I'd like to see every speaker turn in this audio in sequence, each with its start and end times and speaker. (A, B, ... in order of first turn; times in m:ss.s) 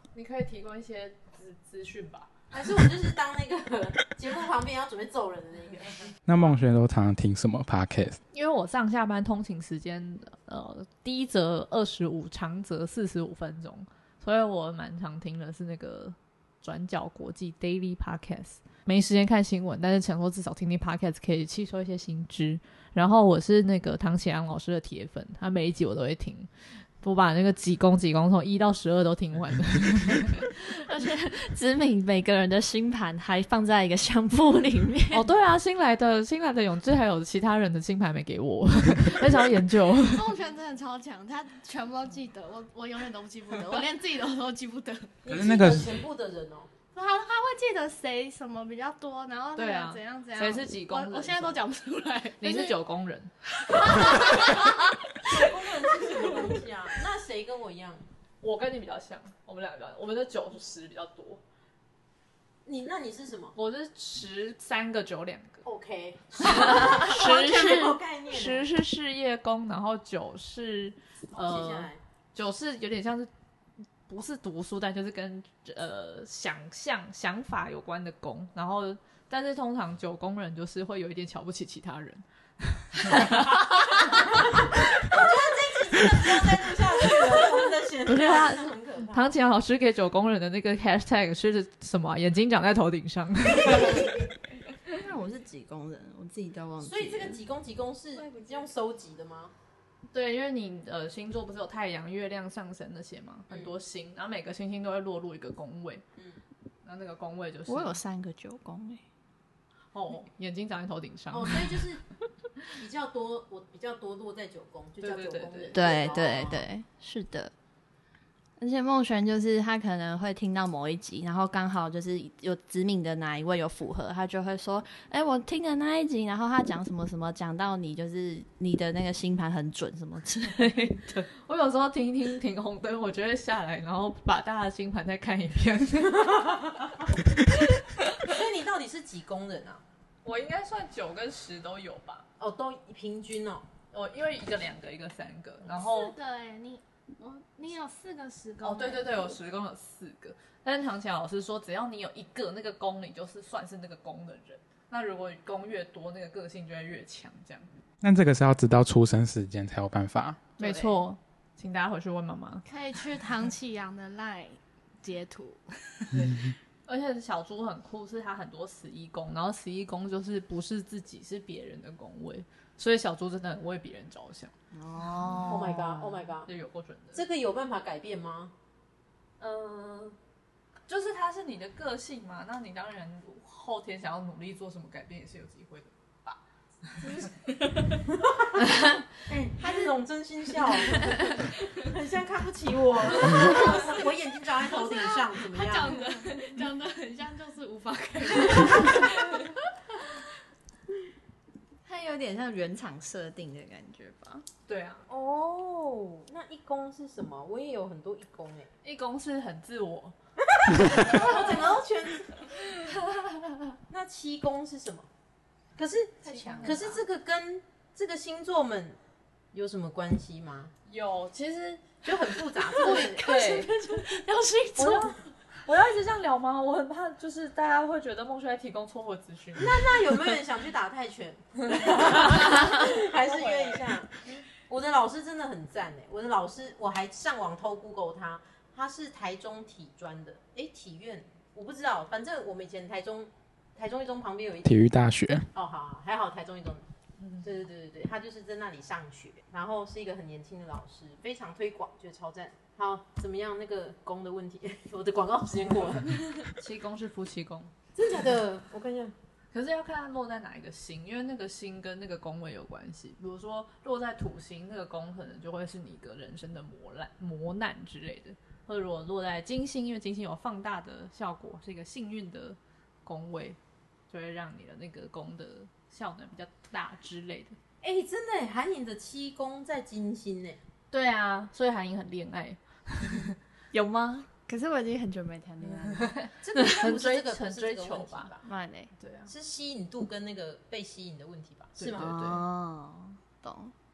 0:00.1-0:02.5 A
0:02.5-0:06.2 B
0:06.3-0:08.2 C
0:08.3-0:26.5 A
0:27.0-0:30.4 A
0:30.5-0:35.3 D
0:35.1-0:40.2 A
0:40.0-0:45.2 E
0:45.2-0:46.7 B
0:45.3-0:45.9 C
0:46.9-0:52.8 E
0:49.6-0:51.6 A
0:52.4-0:54.6 A
0:53.6-0:55.1 E
0:55.2-0:58.0 B
0:58.4-1:01.4 A
1:02.6-1:03.5 B
1:03.6-1:05.6 A
1:05.6-1:08.7 B
1:06.4-1:13.3 A
1:11.3-1:12.0 B
1:14.1-1:25.2 A
1:25.0-1:29.3 B
1:28.1-1:34.2 A
1:34.9-1:37.4 D
1:36.8-1:39.5 B
1:40.1-1:46.0 A
1:46.8-1:48.0 A
1:47.7-1:49.0 D
1:49.9-1:51.8 A
1:51.3-1:52.0 B
1:52.7-1:56.7 B
1:55.0-1:55.9 A
1:55.7-1:57.5 D
1:58.6-2:11.3 D
2:11.3-2:16.7 A
2:17.8-2:18.3 A
2:18.2-2:19.8 B
2:20.2-2:22.2 A
2:22.4-2:23.6 B
2:23.9-2:26.2 A
2:25.7-2:29.4 E
2:28.6-2:37.7 A
2:38.0-2:40.5 C
2:40.6-2:42.7 A
2:42.7-2:46.2 E
2:46.1-2:54.5 A
2:54.7-2:56.0 D
2:55.2-2:55.8 A
2:55.5-2:56.5 B
2:56.4-2:57.2 A
2:57.1-2:58.5 B
2:59.4-3:00.2 A
3:00.9-3:07.5 A
3:08.0-3:08.7 B
3:09.3-3:16.0 B
3:13.5-3:14.0 E
3:14.6-3:19.5 E
3:18.5-3:19.1 A
3:21.8-3:24.5 D
3:24.7-3:25.2 A
3:25.2-3:28.7 B
3:28.8-3:30.2 A
3:30.4-3:32.6 B
3:30.9-3:31.4 A
3:33.9-3:35.1 B
3:35.8-3:39.0 B
3:36.2-3:37.0 A
3:39.5-3:40.7 B
3:40.9-3:42.0 A
3:42.0-3:43.7 B
3:42.7-3:43.7 A
3:42.8-3:45.2 E
3:44.8-3:49.8 A
3:49.6-3:54.1 B
3:51.7-3:53.9 A
3:54.7-4:04.8 B
4:04.6-4:05.5 C
4:05.5-4:06.8 B
4:07.2-4:07.5 A
4:07.4-4:16.3 B
4:16.5-4:17.7 A
4:18.0-4:19.1 B
4:19.5-4:33.6 A
4:34.1-4:37.6 A
4:37.8-4:40.6 B
4:40.9-4:43.4 A
4:43.7-4:46.1 D
4:45.7-4:48.3 A
4:46.4-4:48.5 B
4:48.5-4:48.9 D
4:49.0-4:49.3 A
4:49.3-4:52.4 B
4:51.8-4:52.0 A
4:52.0-4:53.7 D